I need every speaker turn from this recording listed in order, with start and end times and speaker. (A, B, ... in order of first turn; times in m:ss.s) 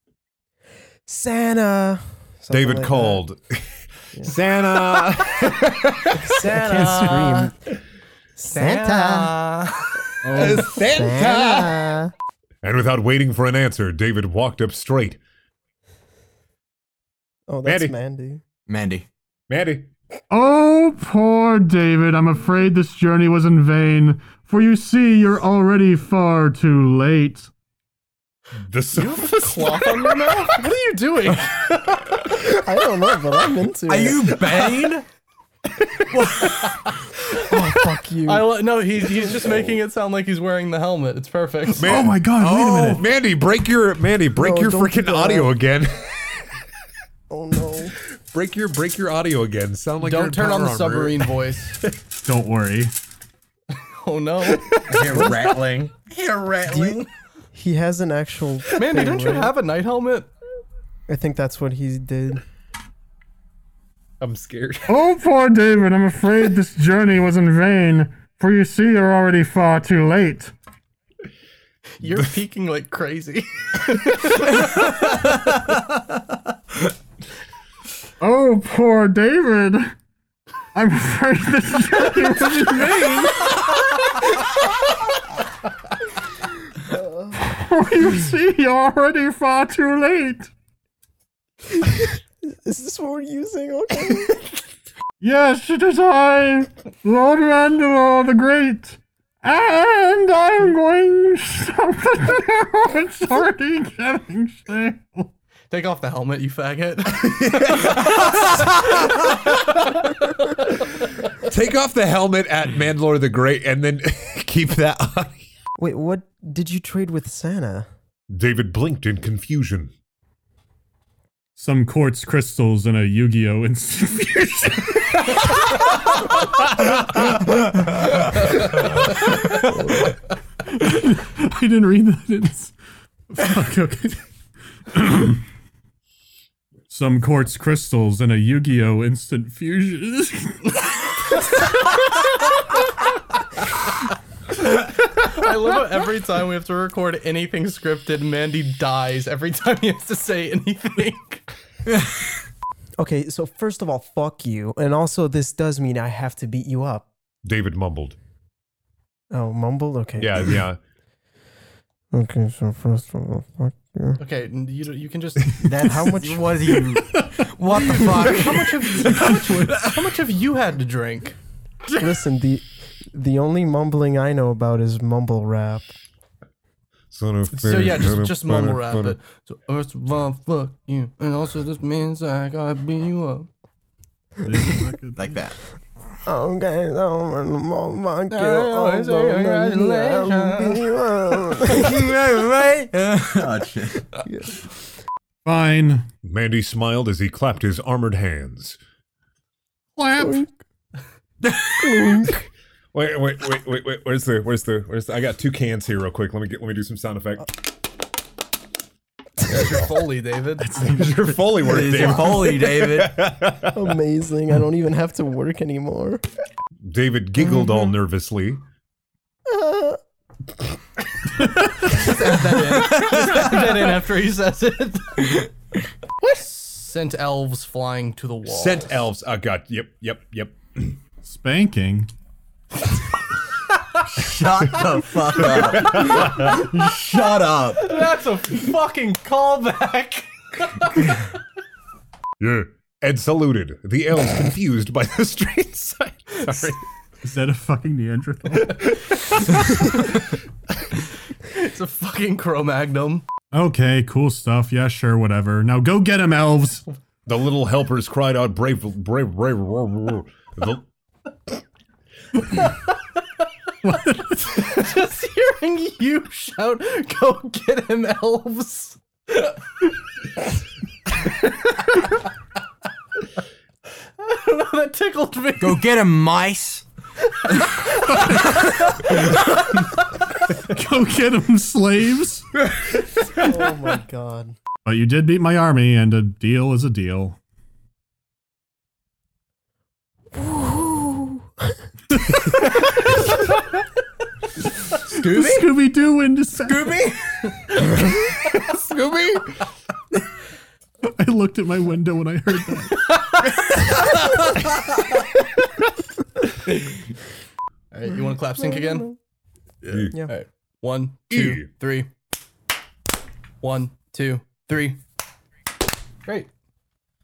0:01.1-0:03.2 A
0:02.5-0:06.9 B
0:06.1-0:07.5 A
0:08.4-0:09.4 A
0:08.6-0:09.5 C
0:10.2-0:10.7 D
0:10.2-0:12.0 B
0:10.6-0:12.1 A
0:12.6-0:15.2 B
0:17.5-0:18.4 A
0:17.6-0:17.9 B
0:18.7-0:19.1 C
0:19.5-0:19.9 B
0:20.3-0:27.5 D
0:28.7-0:29.8 B
0:28.9-0:32.2 E
0:32.3-0:34.6 A
0:33.9-0:35.0 C
0:36.1-0:37.0 E
0:37.4-0:39.6 A
0:38.2-0:42.0 E
0:41.8-0:46.2 B
0:41.8-0:43.0 D
0:44.3-0:45.5 A
0:47.3-0:47.9 A
0:48.3-0:51.2 B
0:50.0-0:51.8 E
0:52.2-0:52.9 D
0:53.8-0:54.7 E
0:54.8-0:57.1 C
0:55.0-0:55.5 A
0:56.7-0:59.5 A
0:58.7-1:00.3 E
1:01.1-1:02.4 A
1:04.2-1:04.9 B
1:04.9-1:10.5 D
1:12.0-1:15.2 E
1:18.2-1:19.9 D
1:20.7-1:23.7 D
1:26.9-1:27.4 A
1:27.4-1:30.5 D
1:31.7-1:34.4 A
1:35.2-1:45.3 D
1:45.7-1:49.1 E
1:47.1-1:49.8 B
1:51.4-1:55.4 B
1:55.8-1:57.9 A
1:58.3-1:59.9 B
2:01.6-2:05.4 D
2:10.7-2:12.7 D
2:13.3-2:14.2 D
2:14.9-2:15.4 D
2:16.9-2:20.7 D
2:24.7-2:31.4 E
2:33.0-2:37.1 A
2:37.4-2:38.2 B
2:39.3-2:40.6 A
2:40.2-2:40.8 B
2:42.1-2:44.2 A
2:44.2-2:45.7 E
2:45.6-2:47.0 C
2:45.7-2:46.6 A
2:47.4-2:51.4 E
2:48.0-2:48.3 A
2:52.0-2:55.9 A
2:57.1-2:59.2 B
2:57.5-3:03.5 E
3:04.4-3:05.3 D
3:05.2-3:05.5 C
3:06.2-3:12.0 A
3:08.3-3:10.9 E
3:11.6-3:14.1 C
3:14.2-3:14.6 A
3:15.4-3:16.1 D
3:16.2-3:18.8 B
3:20.0-3:20.5 D
3:21.8-3:22.4 A
3:22.9-3:27.5 B
3:29.4-3:29.9 B
3:29.4-3:30.7 E
3:30.6-3:33.8 B
3:31.6-3:33.1 C
3:33.7-3:36.2 A
3:36.8-3:38.6 B
3:37.4-3:37.9 A
3:39.5-3:40.0 A
3:41.8-3:45.5 E
3:46.2-3:49.1 E
3:48.4-3:51.0 B
3:51.2-3:52.1 D
3:54.1-3:57.8 C
3:55.6-3:56.5 B
3:57.7-4:01.2 E
4:02.4-4:06.8 B
4:07.2-4:09.2 D
4:11.4-4:13.2 E
4:13.5-4:16.8 D
4:17.2-4:20.8 B
4:23.8-4:24.7 D
4:24.5-4:29.5 E
4:31.8-4:32.1 E
4:34.2-4:35.8 E
4:35.6-4:36.8 C
4:37.5-4:38.1 E
4:40.6-4:42.5 D
4:43.4-4:44.6 A
4:44.8-4:47.4 D
4:50.3-4:51.8 A
4:55.1-4:55.7 C
4:55.2-4:57.1 D
4:56.6-4:57.2 C
4:58.5-4:59.6 B
5:01.0-5:03.1 D
5:06.7-5:06.9 E
5:07.9-5:09.1 E
5:08.6-5:09.1 A
5:09.8-5:12.1 E
5:09.9-5:10.2 B
5:11.3-5:11.7 B
5:13.6-5:15.0 E